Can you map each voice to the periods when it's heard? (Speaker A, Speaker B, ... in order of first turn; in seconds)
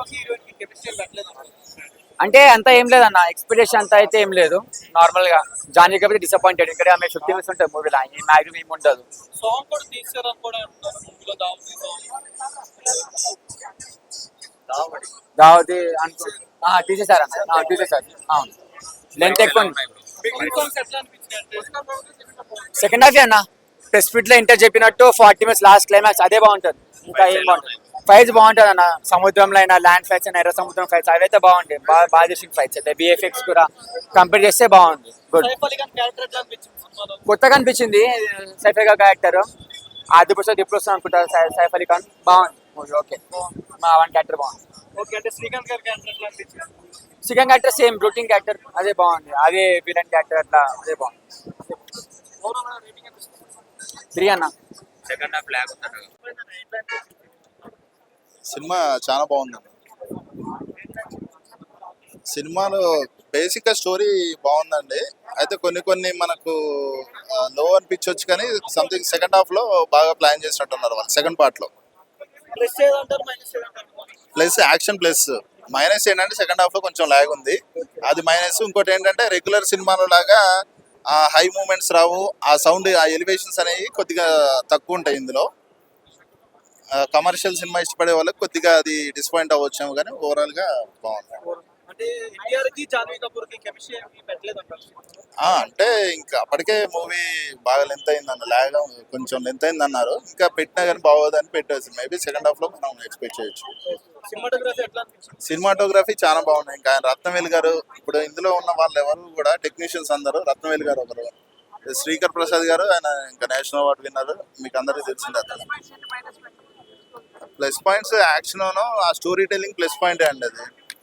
Speaker A: 2.2-9.0, 15.4-18.5, 19.1-19.8, 22.8-35.5, 37.2-39.5, 40.1-44.6, 47.2-51.1, 54.1-54.5
Speaker B: 45.0-46.2, 92.5-94.1, 104.4-104.9
Speaker C: 58.5-59.7, 62.3-71.7, 74.3-80.4, 81.1-85.5, 87.0-91.3, 95.4-103.7, 105.4-111.3, 111.9-115.7, 117.6-120.7